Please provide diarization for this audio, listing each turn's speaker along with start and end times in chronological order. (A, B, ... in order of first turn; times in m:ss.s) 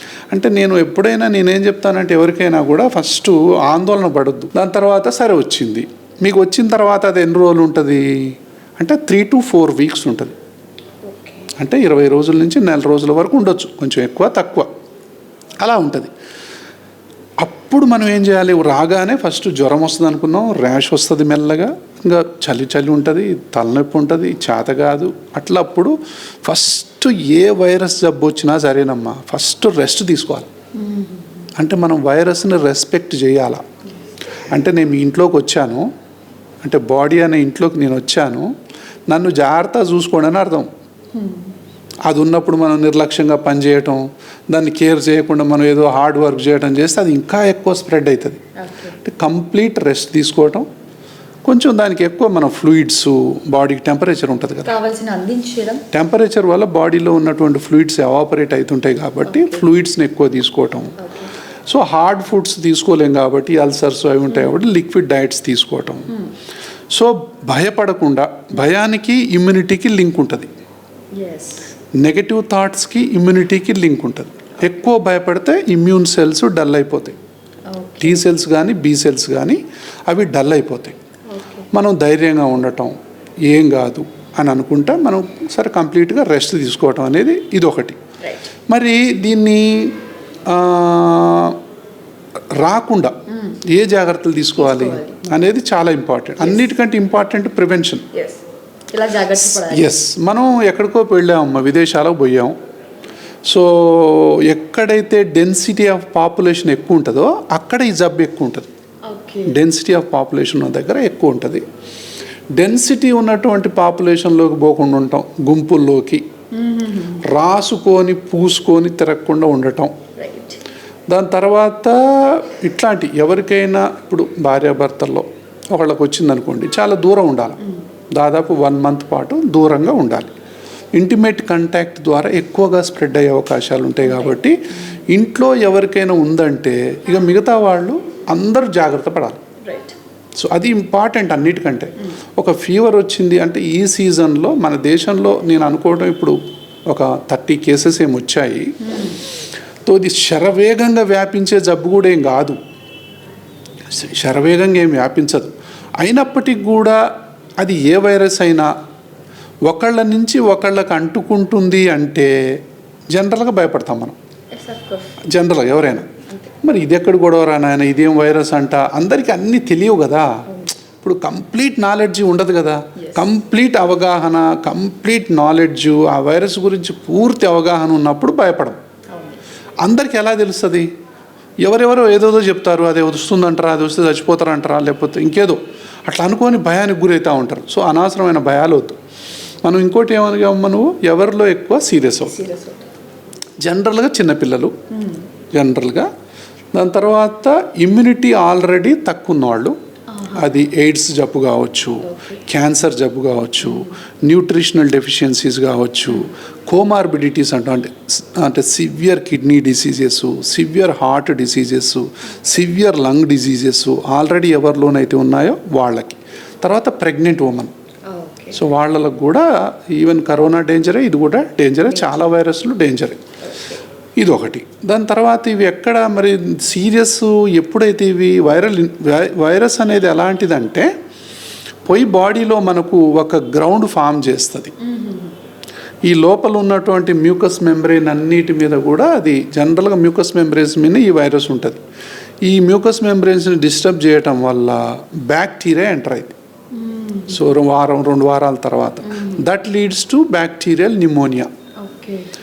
0:00.3-0:10.4 A
0:11.0-0:11.5 B
0:11.6-0:14.7 A
0:15.6-0:16.1 A
0:17.4-0:30.5 A
0:30.8-0:31.5 B
0:31.6-0:33.6 A
0:34.5-0:35.9 A
0:36.6-0:38.5 A
0:39.1-0:40.7 A
0:41.1-0:41.5 B
0:42.1-0:48.4 A
0:48.6-0:49.0 B
0:49.0-0:50.7 A
0:51.4-0:54.8 A
0:54.6-0:55.8 B
0:55.9-1:01.0 A
0:59.2-0:59.7 B
1:01.0-1:01.3 B
1:01.7-1:06.1 A
1:06.1-1:06.4 B
1:06.9-1:10.5 A
1:11.1-1:11.7 B
1:11.9-1:17.2 A
1:17.7-1:18.3 B
1:18.0-1:21.0 A
1:21.3-1:21.7 B
1:21.7-1:28.0 A
1:28.2-1:28.5 B
1:28.7-1:31.6 A
1:32.6-1:38.0 A
1:33.3-1:33.6 B
1:34.6-1:35.2 B
1:36.4-1:36.8 B
1:38.1-1:38.4 B
1:38.9-1:40.0 B
1:39.3-1:42.6 A
1:43.5-1:48.7 A
1:49.1-1:49.6 B
1:49.5-1:51.6 A
1:52.5-1:56.2 A
1:56.5-1:57.2 B
1:57.2-1:59.9 A
2:00.2-2:00.6 B
2:01.1-2:07.6 A
2:07.6-2:07.8 B
2:08.1-2:10.3 A
2:10.9-2:19.4 A
2:14.0-2:14.4 B
2:19.6-2:20.0 B
2:20.4-2:28.7 A
2:28.8-2:29.2 B
2:29.8-2:32.6 A
2:33.9-2:37.0 A
2:37.6-2:38.7 A
2:39.6-2:42.6 A
2:43.1-2:44.2 A
2:44.5-2:45.2 B
2:45.2-2:46.1 A
2:46.3-2:46.5 B
2:46.6-2:50.4 A
2:50.5-2:50.7 B
2:51.0-2:58.8 A
2:53.0-2:53.3 B
2:59.1-2:59.4 B
2:59.8-3:00.9 A
3:01.6-3:09.0 A
3:09.6-3:12.4 A
3:12.3-3:12.9 B
3:13.6-3:14.8 A
3:14.9-3:15.3 B
3:15.5-3:16.1 A
3:16.7-3:19.8 A
3:20.1-3:20.6 B
3:20.4-3:37.7 A
3:22.0-3:22.4 B
3:23.6-3:23.9 B
3:38.1-3:38.6 B
3:38.5-3:43.2 A
3:43.4-3:43.8 B
3:44.2-3:50.9 A
3:51.8-3:54.8 A
3:54.8-3:55.4 B
3:56.0-4:01.8 A
4:02.4-4:06.4 A
4:06.7-4:07.4 B
4:07.3-4:11.5 A
4:09.0-4:09.4 B
4:11.8-4:12.3 B